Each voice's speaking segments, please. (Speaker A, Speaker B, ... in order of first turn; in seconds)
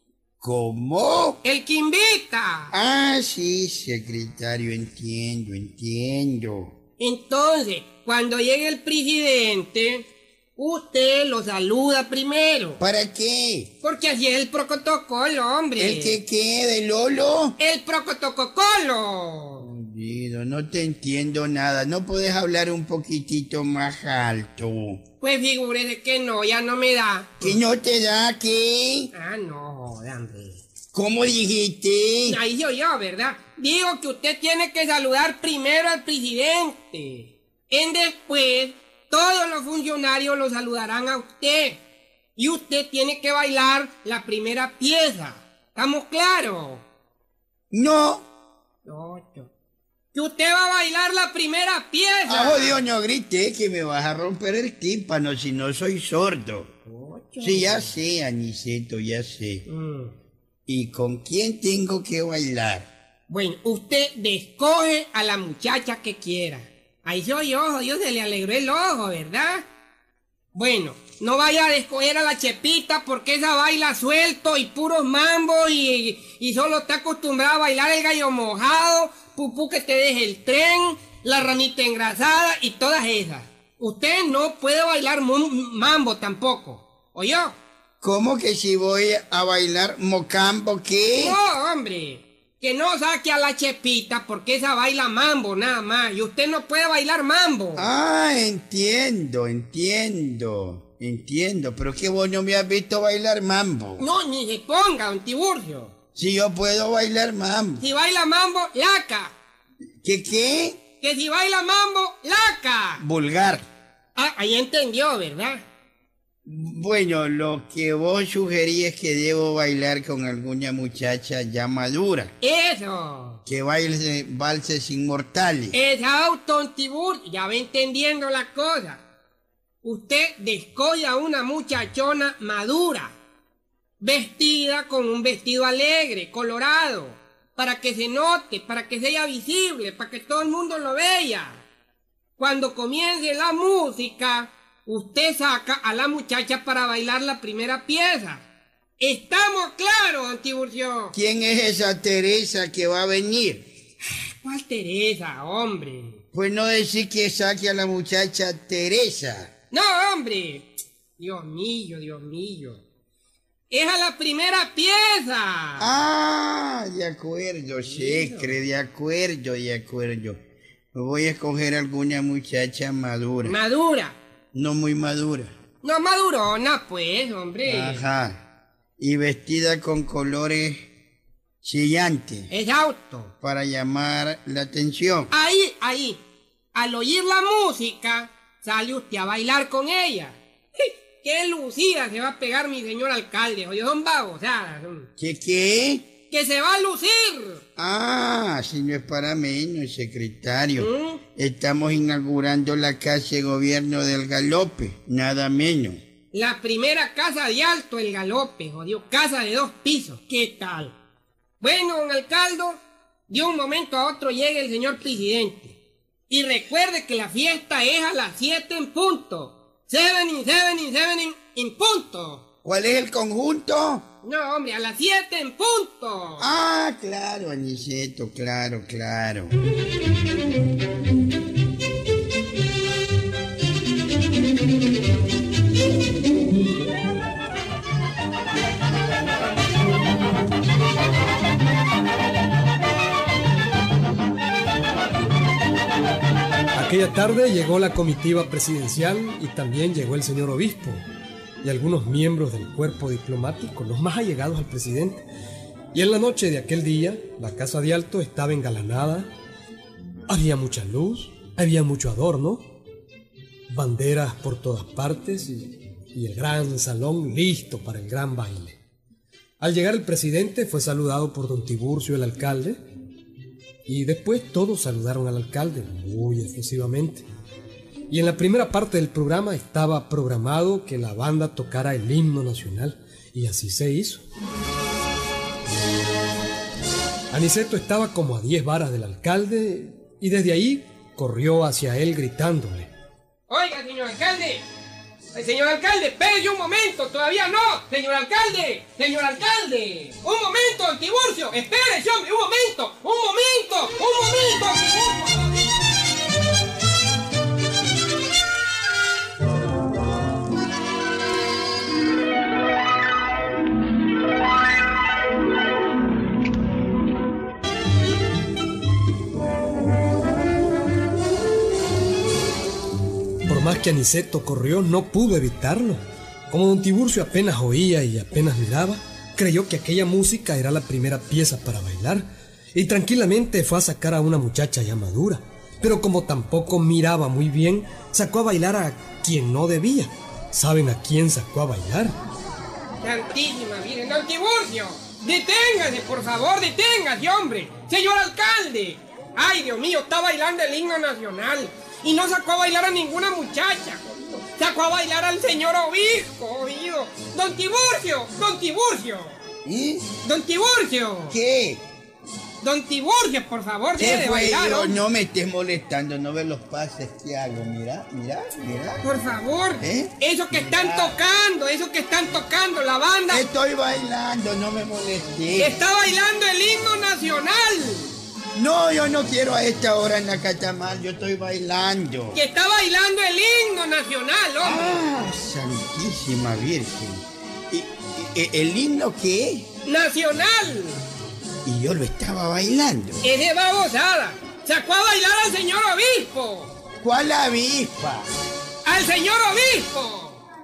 Speaker A: 0.4-1.4, 2.7-6.7, 12.8-13.7, 15.8-17.6, 19.6-25.0, 27.4-29.1, 30.9-32.4, 47.7-48.3, 52.3-56.7, 57.4-59.6, 60.7-62.9, 88.0-91.4, 97.8-104.0, 106.1-107.8, 110.0-110.8, 113.0-113.6, 116.4-122.3, 123.5-125.8, 151.1-153.7, 156.3-159.5, 165.8-170.4, 170.9-173.6, 174.5-175.5, 177.6-178.4, 179.0-180.9, 181.6-182.5, 183.4-185.3, 195.2-196.1, 197.8-206.0, 222.6-224.0, 226.4-229.5, 359.6-360.1, 361.3-361.8, 363.9-369.0, 369.8-371.2, 373.3-375.8, 378.5-382.4, 384.6-389.7, 391.6-393.2, 397.0-398.3
Speaker B: 1.4-2.7, 7.0-12.8, 13.8-16.2, 17.6-19.7, 25.2-27.6, 29.1-30.6, 32.2-41.8, 42.4-46.8, 48.8-49.5, 50.1-52.8, 56.8-57.9, 59.6-60.1, 63.3-69.7, 70.5-87.6, 91.2-97.9, 104.0-105.9, 107.8-109.3, 111.0-113.0, 114.2-115.6, 122.4-123.4, 125.7-129.0, 129.8-133.2, 134.0-141.6, 142.4-148.4, 149.0-151.2, 154.1-156.2, 159.7-162.8, 163.7-165.9, 167.8-168.6, 173.4-174.2, 175.8-178.0, 182.5-183.3, 185.3-186.2, 186.7-195.1, 196.3-197.6, 200.8-201.2, 206.3-210.9, 211.6-215.8, 216.3-222.4, 224.2-226.5, 293.5-294.6, 295.3-305.8, 343.0-359.4, 360.2-361.4, 362.6-365.0, 369.0-373.4, 375.6-378.1, 382.3-385.0, 389.9-391.0, 393.2-396.7, 398.8-400.4
Speaker C: 246.7-251.0, 251.6-255.2, 255.9-259.3, 260.3-262.6, 263.7-268.8, 269.6-272.8, 273.9-277.2, 278.1-284.2, 287.3-292.9, 323.4-342.1